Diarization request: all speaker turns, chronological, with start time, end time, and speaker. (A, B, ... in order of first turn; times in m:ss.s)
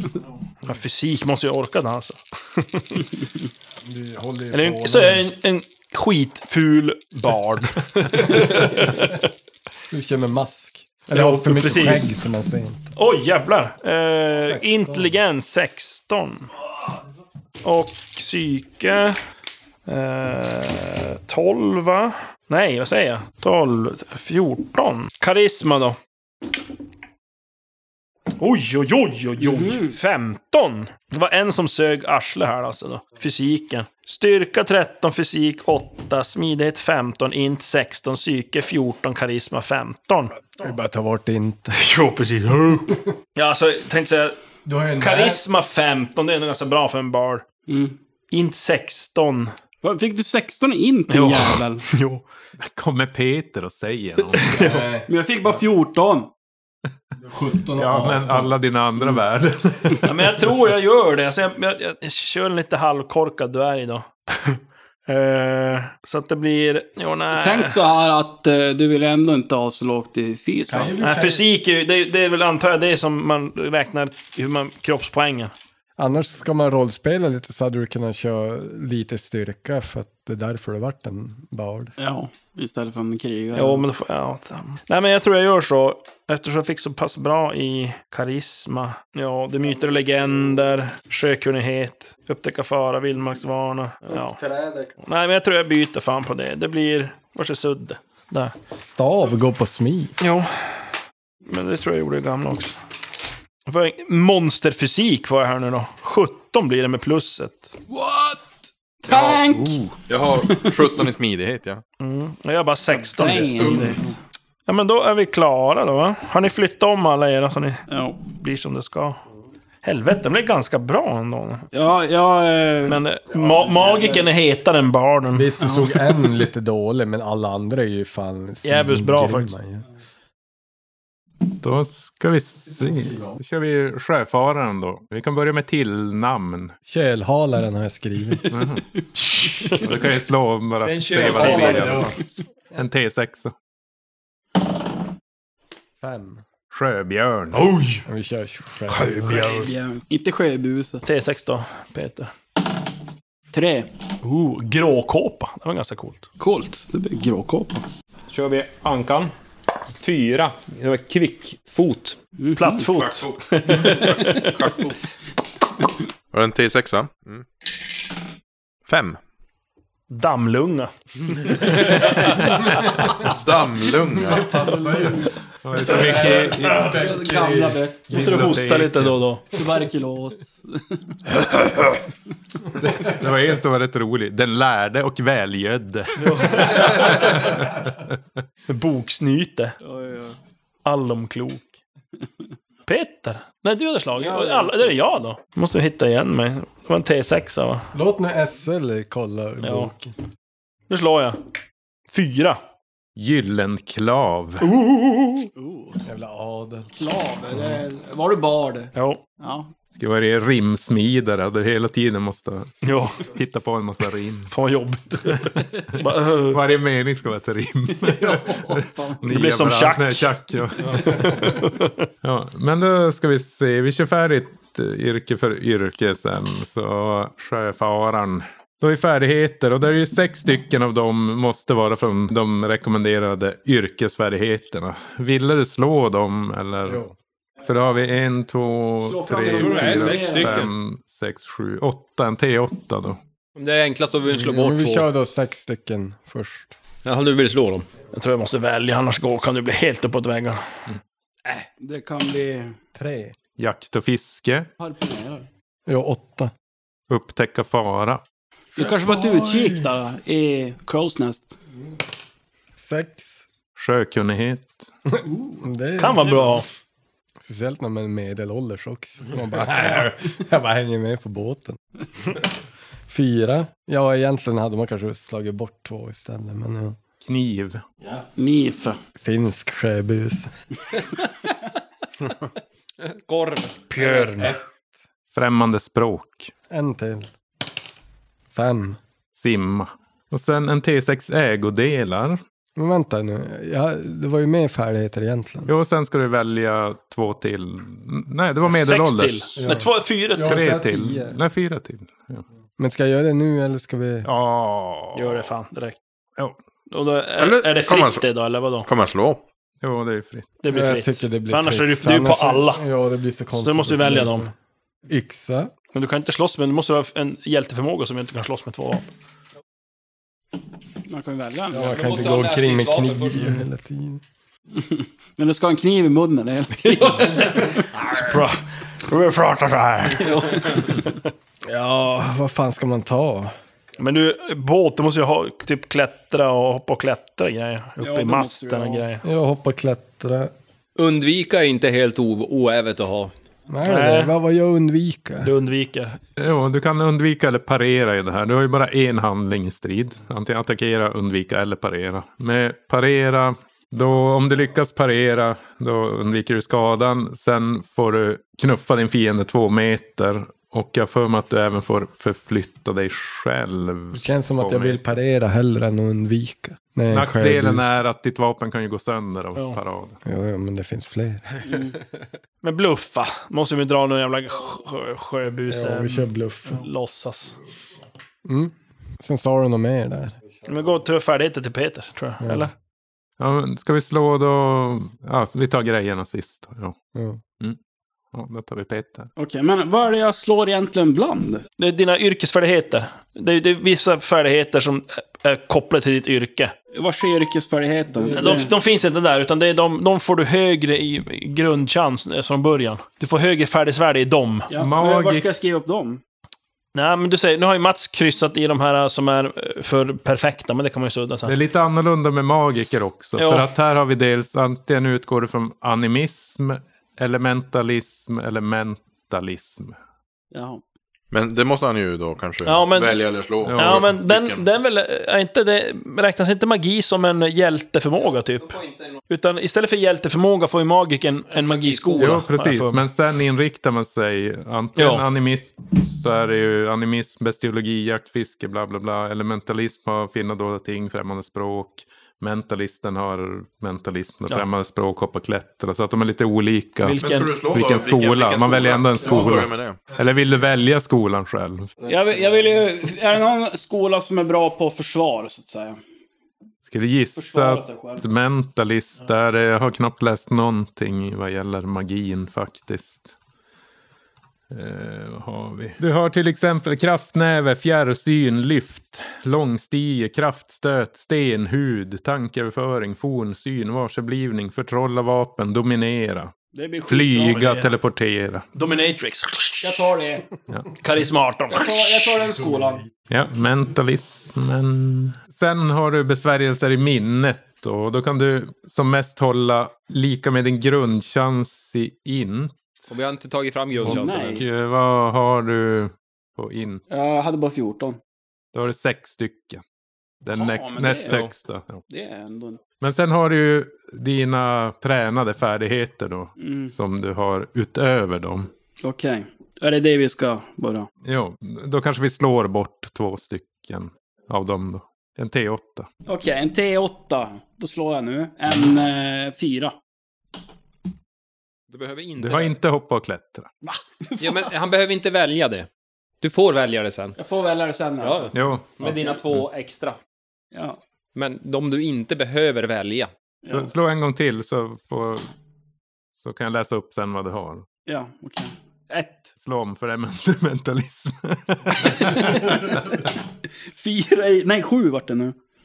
0:00.6-0:03.2 A
0:03.8-0:05.3 B
0:04.5-0:09.2 A
0:08.4-0:08.9 B
0:09.9-0:12.8 B
0:11.1-0:12.2 A
0:13.0-0:16.5 A
0:14.4-0:15.2 B
0:17.6-0:19.2 A
0:19.9-0:26.0 A
0:28.4-0:40.7 A
0:29.4-0:30.0 C
0:40.6-0:41.9 B
0:41.7-0:44.4 A
0:44.6-0:45.5 B
0:45.0-0:47.4 A
0:47.7-0:48.0 C
0:48.3-0:49.5 A
0:49.8-0:51.8 C
0:51.1-0:52.2 A
0:52.6-0:54.7 D
0:54.5-0:55.1 B
0:55.1-0:56.3 C
0:57.2-0:58.5 B
0:57.8-1:00.2 D
1:00.0-1:07.8 A
1:07.3-1:11.0 C
1:10.7-1:11.5 B
1:11.0-1:15.5 A
1:16.0-1:21.9 B
1:22.0-1:23.9 C
1:23.5-1:34.4 A
1:34.1-1:35.0 B
1:35.0-1:38.5 A
1:38.8-1:40.2 B
1:40.2-1:40.9 A
1:41.5-1:42.7 A
1:43.7-1:47.8 A
1:47.9-1:48.4 C
1:49.0-1:49.9 C
1:49.1-1:50.0 D
1:50.1-1:51.8 E
1:50.4-1:51.0 C
1:52.0-1:54.0 A
1:52.9-1:54.2 C
1:54.7-1:59.2 A
1:57.9-1:58.2 C
1:59.8-2:01.7 A
2:01.7-2:03.0 C
2:02.9-2:05.5 A
2:03.3-2:04.3 B
2:05.3-2:09.8 B
2:05.6-2:06.2 C
2:08.6-2:09.5 A
2:11.6-2:16.8 D
2:12.7-2:13.4 B
2:16.9-2:18.5 B
2:18.5-2:18.9 D
2:19.3-2:19.9 A
2:19.6-2:22.1 D
2:21.0-2:22.0 A
2:21.2-2:22.2 B
2:21.3-2:21.6 F
2:21.3-2:21.7 C
2:22.8-2:23.6 D
2:26.0-2:26.4 B
2:26.7-2:27.7 D
2:27.5-2:28.0 A
2:28.0-2:29.5 B
2:28.9-2:29.7 A
2:29.2-2:31.0 C
2:31.0-2:32.3 A
2:33.5-2:33.9 C
2:34.2-2:36.3 A
2:36.4-2:37.9 C
2:38.3-2:39.3 F
2:40.0-2:42.2 F
2:42.4-2:42.9 C
2:42.6-2:44.5 A
2:42.9-2:43.9 F
2:43.8-2:45.0 E
2:43.8-2:44.3 C
2:46.3-2:47.5 E
2:48.9-2:49.2 E
2:50.1-2:52.4 A
2:52.4-2:53.3 D
2:53.2-2:54.6 E
2:54.1-2:57.8 B
2:54.4-2:55.3 C
2:55.6-2:57.1 D
2:56.0-2:58.4 C
2:58.1-2:59.3 D
2:58.1-2:59.5 A
2:59.5-3:01.0 C
3:01.4-3:01.9 D
3:02.8-3:08.2 D
3:06.2-3:07.3 A
3:08.7-3:09.8 A
3:09.8-3:10.4 C
3:10.8-3:11.7 A
3:12.9-3:17.9 A
3:14.2-3:15.0 C
3:17.9-3:20.1 B
3:19.6-3:19.9 A
3:20.9-3:21.4 A
3:22.1-3:22.6 A
3:23.2-3:24.7 D
3:24.6-3:25.5 A
3:25.6-3:26.0 C
3:26.0-3:26.9 B
3:26.9-3:29.7 C
3:29.0-3:29.2 A
3:29.9-3:34.5 D
3:32.8-3:33.2 A
3:34.5-3:36.6 A
3:35.3-3:41.7 D
3:38.0-3:39.2 C
3:39.3-3:42.1 A
3:42.2-3:57.0 D
3:56.8-3:57.1 B
3:57.6-4:03.2 D
3:59.0-4:00.6 C
3:59.5-4:00.7 F
4:03.6-4:05.1 F
4:04.3-4:06.7 B
4:07.0-4:07.9 F
4:08.1-4:10.6 A
4:11.8-4:12.8 C
4:13.0-4:13.4 B
4:13.6-4:14.7 D
4:14.8-4:15.5 C
4:15.9-4:16.5 B
4:17.1-4:18.2 D
4:18.8-4:19.9 B
4:18.8-4:21.5 C
4:22.8-4:23.4 B
4:23.8-4:24.9 D
4:25.3-4:25.6 C
4:25.6-4:26.6 B
4:26.0-4:26.7 A
4:27.4-4:31.8 B
4:33.1-4:37.0 B
4:37.2-4:37.8 D
4:38.2-4:39.0 C
4:39.2-4:40.5 B
4:43.0-4:44.1 F
4:43.9-4:44.6 B
4:44.0-4:44.3 C
4:45.3-4:46.5 D
4:46.7-4:47.3 B
4:48.5-4:49.0 B
4:49.4-4:52.4 D
4:52.8-4:55.7 B
4:55.7-4:59.6 D
4:58.6-5:00.6 A
4:59.6-5:01.4 B
5:00.4-5:02.4 D
5:02.8-5:04.3 B
5:04.2-5:05.5 D
5:05.2-5:06.0 A
5:06.9-5:08.9 A
5:07.4-5:08.3 E
5:08.8-5:09.4 E
5:09.8-5:10.6 D
5:10.6-5:12.8 A
5:10.7-5:14.5 B
5:13.6-5:14.5 A
5:15.1-5:15.7 B
5:15.9-5:19.1 A
5:21.1-5:22.3 C
5:21.7-5:24.2 B
5:21.9-5:23.6 F
5:24.8-5:28.0 C
5:27.0-5:31.2 A
5:30.2-5:31.1 C
5:31.7-5:33.5 B
5:34.0-5:39.2 A
5:38.0-5:39.0 C
5:39.2-5:40.5 B
5:41.0-5:43.3 F
5:43.7-5:45.5 B
5:43.8-5:44.3 A
5:45.4-5:46.2 A
5:46.4-6:05.0 D
6:04.1-6:08.0 B
6:07.1-6:10.2 D
6:10.2-6:11.7 B
6:11.7-6:12.0 C
6:12.6-6:17.6 A
6:15.7-6:16.9 B
6:18.4-6:20.4 B
6:20.6-6:22.7 A
6:22.4-6:22.7 B
6:23.4-6:27.0 D
6:27.2-6:27.4 B
6:28.3-6:29.3 D
6:29.4-6:31.7 C
6:31.8-6:36.7 A
6:36.9-6:38.7 C
6:38.1-6:38.7 B
6:38.3-6:44.7 A
6:44.7-6:46.2 C
6:44.8-6:45.5 D
6:46.9-6:51.6 A
6:51.5-7:00.0 D
6:53.4-6:53.7 A
7:00.5-7:00.8 C
7:01.3-7:04.7 E
7:02.6-7:08.8 A
7:03.6-7:04.2 D
7:08.2-7:09.2 F
7:09.3-7:13.0 A
7:11.5-7:12.4 F
7:12.2-7:31.9 D
7:15.0-7:15.3 F
7:27.0-7:27.5 A
7:27.2-7:30.2 E
7:32.1-7:36.0 C
7:36.9-7:43.4 D
7:37.4-7:38.2 C
7:44.7-7:56.5 D
7:56.7-7:57.8 C
7:57.1-7:58.6 D
7:57.6-7:57.8 A
7:58.8-8:00.1 A
7:59.8-8:00.5 C
8:01.0-8:02.4 A
8:01.7-8:03.0 C
8:02.4-8:03.1 B
8:03.3-8:13.1 D
8:13.1-8:14.6 F
8:14.0-8:17.0 D
8:14.0-8:14.7 C
8:17.1-8:18.2 C
8:18.7-8:19.8 D
8:20.4-8:22.0 D
8:20.5-8:21.4 C
8:22.1-8:22.8 C
8:23.0-8:28.7 D
8:26.6-8:26.9 C
8:29.0-8:31.1 C
8:31.3-8:36.1 D
8:36.3-8:40.0 C
8:41.9-8:42.8 F
8:42.4-8:43.7 D
8:43.8-8:44.7 C
8:44.4-8:45.9 F
8:46.4-8:47.4 F
8:47.4-8:48.6 C
8:48.2-8:50.2 F
8:48.5-8:49.7 D
8:50.7-8:51.0 C
8:51.4-8:53.3 F
8:53.6-8:53.9 C
8:53.7-8:55.5 D
8:56.4-8:57.9 D
8:58.1-8:59.5 C
8:59.6-9:03.2 D
9:02.1-9:03.2 C
9:03.9-9:05.6 C